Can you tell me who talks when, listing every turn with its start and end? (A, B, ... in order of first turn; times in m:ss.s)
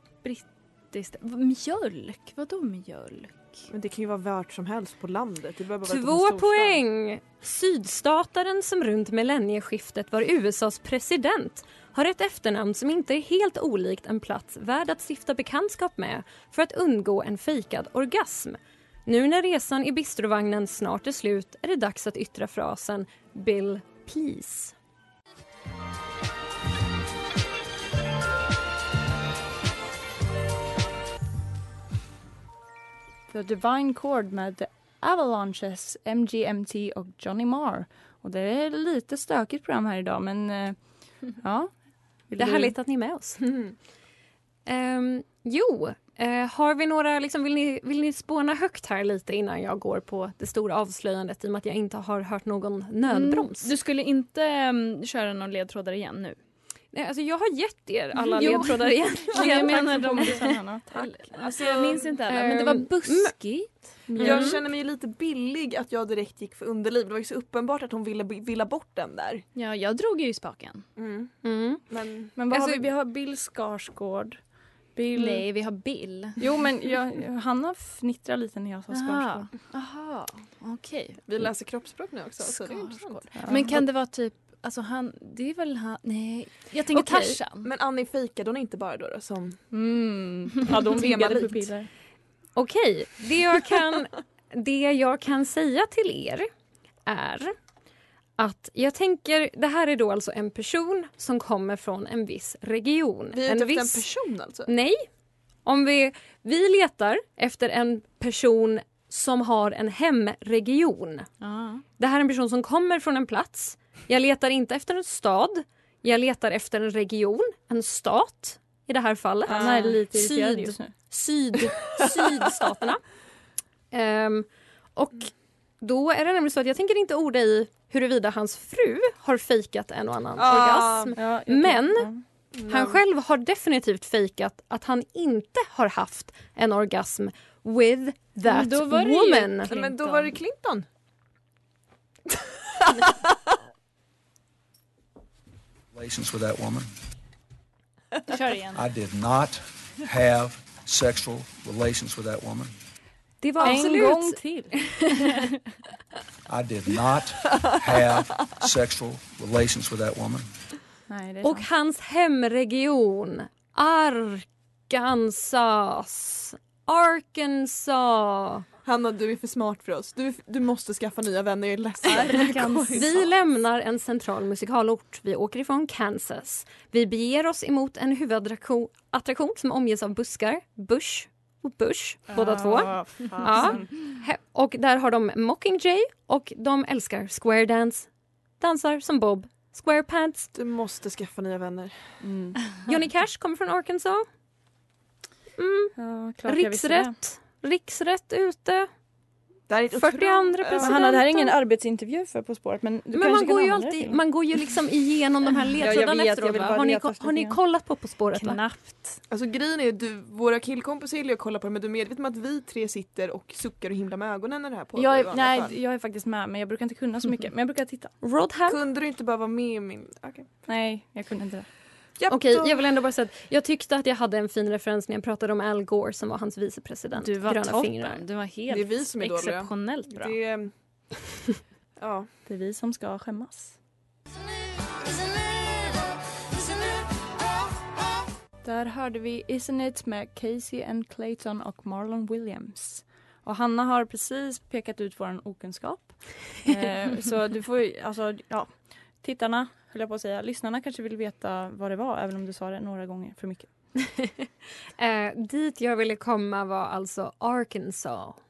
0:00.2-0:03.7 A
0:03.7-0:06.8 B
0:05.8-0:24.8 C
0:33.3-0:40.8 D
0:41.4-0:41.7 D
0:42.3-0:42.8 D
0:42.4-0:43.4 C
0:43.4-0:43.7 B
0:44.7-0:53.7 C
0:53.1-0:56.4 A
0:56.9-1:00.3 C
0:58.3-1:01.3 D
0:58.4-1:03.8 A
1:01.4-1:02.1 B
1:02.3-1:03.3 C
1:04.1-1:04.5 D
1:04.1-1:04.6 C
1:04.2-1:09.4 B
1:09.6-1:10.9 A
1:11.0-1:11.4 B
1:11.4-1:11.8 C
1:11.9-1:12.3 B
1:12.4-1:14.4 D
1:12.5-1:12.9 C
1:14.9-1:15.5 D
1:15.1-1:16.4 A
1:16.4-1:19.5 D
1:18.9-1:21.2 A
1:21.3-1:23.3 B
1:22.4-1:27.7 A
1:23.4-1:23.8 D
1:26.9-1:27.4 C
1:27.6-1:29.6 B
1:29.7-1:31.9 D
1:30.7-1:31.7 B
1:32.6-1:36.5 C
1:37.1-1:37.6 C
1:38.4-1:44.0 C
1:43.3-1:44.7 B
1:44.7-1:45.1 C
1:45.7-1:51.3 C
1:51.4-1:51.8 A
1:52.0-2:03.0 C
1:59.5-2:00.0 B
1:59.5-2:01.0 D
2:03.9-2:12.1 C
2:10.4-2:11.2 B
2:11.2-2:12.2 D
2:12.5-2:13.0 B
2:12.6-2:19.7 C
2:18.4-2:20.4 A
2:19.7-2:20.9 B
2:22.8-2:23.3 B
2:25.9-2:26.9 E
2:28.3-2:28.8 A
2:28.7-2:32.7 E
2:33.4-2:35.1 D
2:33.5-2:34.4 C
2:36.5-2:40.5 E
2:41.1-2:41.7 D
2:41.4-2:48.7 C
2:48.8-2:53.2 B
2:52.0-2:53.1 D
2:52.9-3:08.1 C
3:02.3-3:04.0 D
3:08.6-3:10.5 C
3:10.6-3:12.2 B
3:12.2-3:12.6 D
3:12.9-3:14.3 C
3:15.6-3:18.9 C
3:16.0-3:17.2 D
3:19.7-3:21.0 B
3:19.9-3:21.6 C
3:20.8-3:24.2 D
3:23.1-3:28.6 C
3:25.8-3:27.6 D
3:28.3-3:29.2 A
3:29.3-3:35.8 B
3:35.0-3:38.1 D
3:38.2-3:38.8 C
3:38.7-3:40.5 B
3:40.7-3:41.7 D
3:42.2-3:42.8 B
3:42.3-3:48.2 C
3:47.2-3:50.4 A
3:48.7-3:50.7 B
3:52.0-3:52.3 B
3:52.5-3:53.7 D
3:58.6-4:13.7 D
4:15.0-4:18.4 C